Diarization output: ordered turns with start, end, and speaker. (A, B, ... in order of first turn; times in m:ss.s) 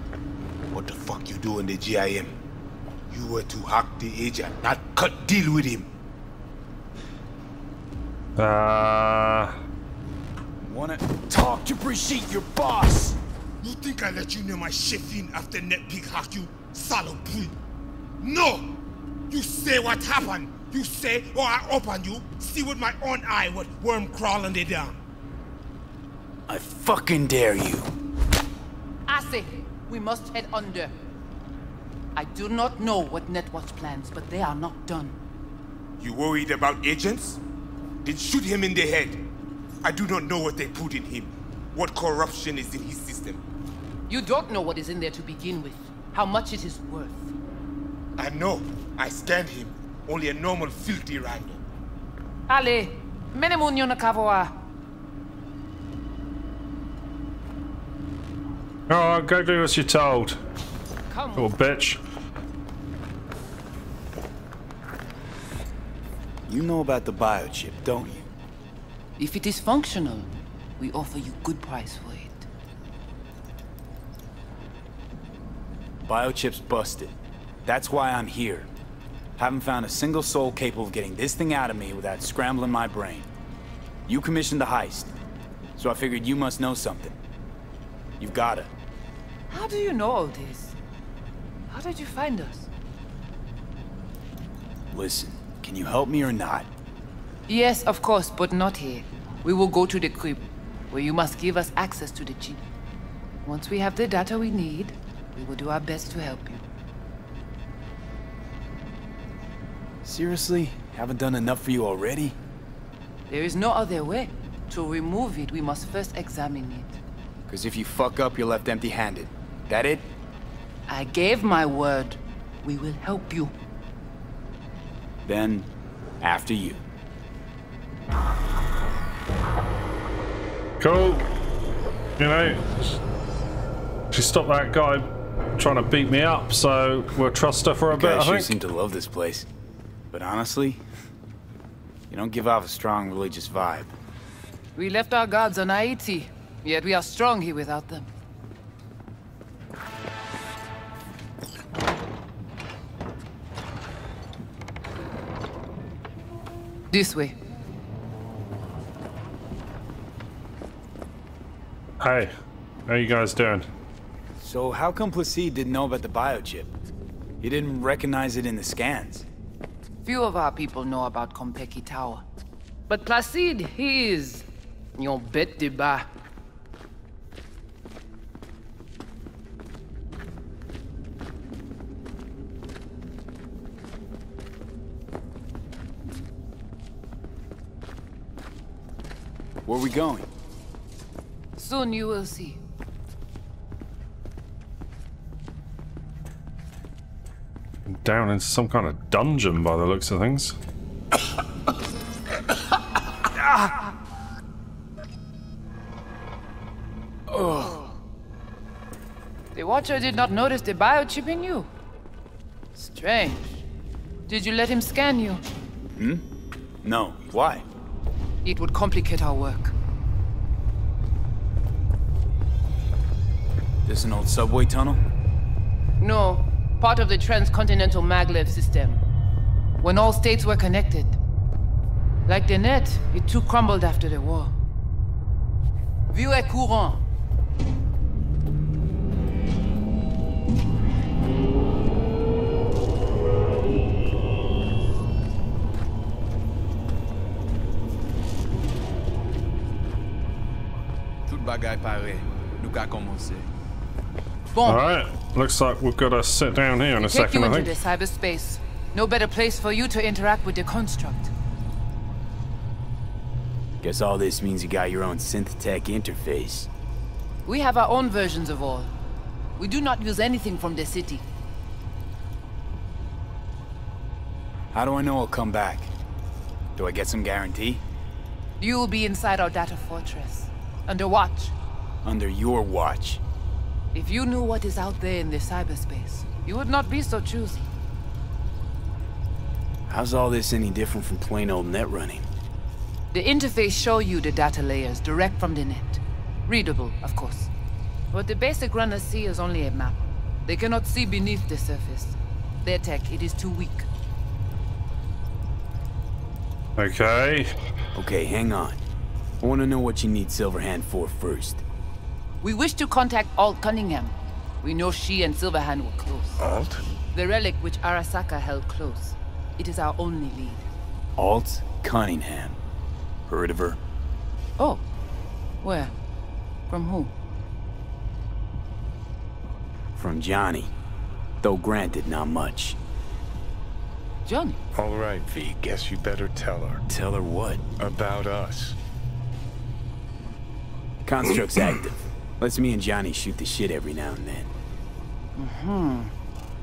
0:00.7-0:02.3 A
0:03.1-0:05.9 A
0:08.4-0:09.6 B
0:10.6-0:13.2 C
0:13.6-0:17.5 A
0:18.2-0:18.7 A
0:19.3-0:25.0 A
0:26.5-0:27.9 C
0:29.1-0:30.9 D
0:32.2-0:35.2 D
0:36.0-0:37.4 A
0:38.0-0:39.2 A
0:39.8-0:43.4 A
0:44.1-0:47.3 D
0:48.2-0:51.6 A
0:52.5-0:54.6 D
0:58.9-1:00.4 B
1:01.1-1:01.5 D
1:01.4-1:02.0 B
1:06.5-1:08.3 C
1:09.2-1:12.5 D
1:16.0-1:18.7 C
1:19.4-1:23.3 C
1:24.1-1:25.1 C
1:25.8-1:27.2 C
1:28.2-1:28.7 C
1:29.5-1:30.8 D
1:31.7-1:32.7 D
1:34.9-1:36.7 C
1:37.5-1:42.6 D
1:43.4-1:46.6 D
1:50.0-1:52.4 C
1:53.3-1:57.0 D
1:57.5-2:00.1 C
2:00.9-2:03.5 D
2:05.2-2:05.7 C
2:06.2-2:06.8 C
2:10.8-2:11.3 B
2:12.2-2:13.0 B
2:14.1-2:18.5 B
2:17.9-2:19.5 C
2:20.1-2:20.8 C
2:22.1-2:23.9 C
2:24.8-2:28.1 D
2:36.9-2:37.4 D
2:42.0-2:42.3 B
2:42.9-2:43.7 B
2:44.4-2:46.7 C
2:47.4-2:49.2 C
2:50.0-2:52.2 D
2:52.9-2:54.4 D
2:55.0-2:56.1 D
3:09.6-3:10.3 C
3:11.6-3:12.6 D
3:17.9-3:20.6 B
3:27.3-3:27.8 C
3:29.5-3:31.7 D
3:32.8-3:33.6 D
3:34.3-3:35.4 D
3:36.0-3:36.2 C
3:36.8-3:37.6 C
3:38.4-3:39.7 D
3:43.8-3:45.0 C
3:46.0-3:49.0 D
3:49.8-3:51.2 D
3:52.3-3:54.5 D
3:56.1-3:57.0 D
4:11.3-4:13.5 E
4:14.5-4:14.8 D
4:14.6-4:17.7 B
4:17.0-4:21.3 D
4:23.8-4:26.7 C
4:27.4-4:28.9 D
4:29.6-4:31.2 D
4:34.7-4:35.9 C
4:36.8-4:37.8 C
4:38.6-4:41.5 D
4:42.0-4:43.2 C
4:43.9-4:47.7 D
4:49.9-4:52.3 C
4:53.1-4:57.5 D
4:58.1-5:03.9 D
5:06.8-5:07.5 B
5:07.9-5:08.8 C
5:09.4-5:11.6 C
5:12.4-5:16.4 D
5:16.5-5:16.8 F
5:17.1-5:20.7 D
5:21.2-5:22.6 C
5:23.3-5:23.8 C
5:24.6-5:24.8 D
5:25.6-5:25.9 D
5:26.7-5:27.1 D
5:30.0-5:30.7 C
5:31.4-5:32.8 C
5:34.2-5:34.6 D
5:34.7-5:36.8 F
5:36.9-5:37.6 C
5:37.8-5:38.8 F
5:41.0-5:44.5 C
5:45.4-5:46.1 D